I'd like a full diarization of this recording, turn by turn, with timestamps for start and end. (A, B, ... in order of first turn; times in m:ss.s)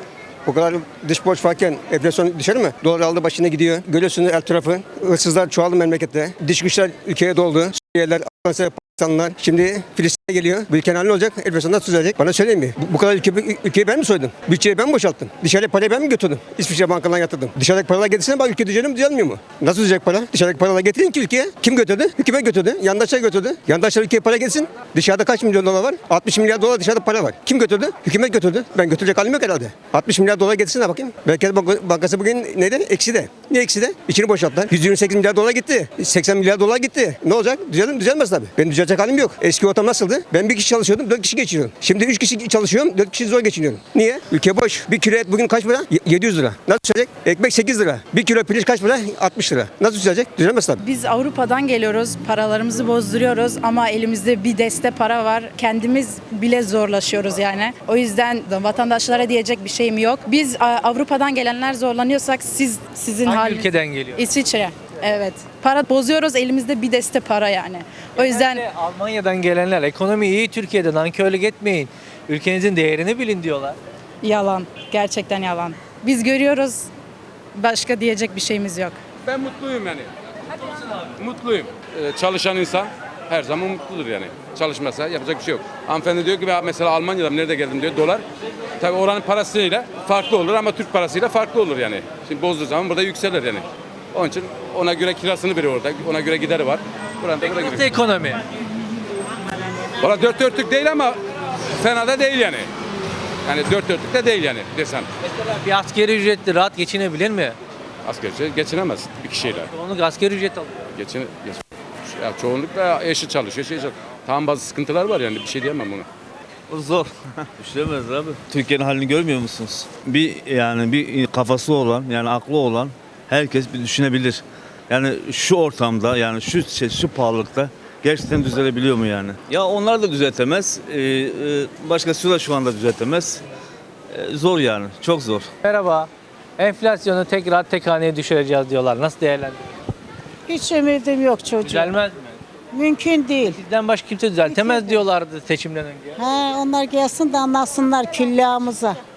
0:00.4-0:50.8 A
0:50.8-1:08.6 B
1:03.2-1:04.2 C
1:08.2-1:13.8 C
1:14.2-1:16.9 B
1:17.5-1:19.0 B
1:19.2-1:20.1 D
1:21.1-1:28.2 D
1:28.8-1:37.9 D
1:37.4-1:38.4 C
1:40.0-1:41.2 D
1:41.7-1:42.7 D
1:43.4-1:45.1 D
1:45.3-1:47.6 C
1:48.0-1:49.7 D
1:49.7-1:50.8 C
1:50.9-1:56.0 D
1:56.7-2:13.4 E
2:14.1-2:15.5 E
2:15.6-2:19.7 C
2:20.5-2:21.9 F
2:21.6-2:22.4 C
2:22.7-2:23.5 F
2:23.4-2:26.2 C
2:24.6-2:24.9 F
2:26.2-2:29.0 F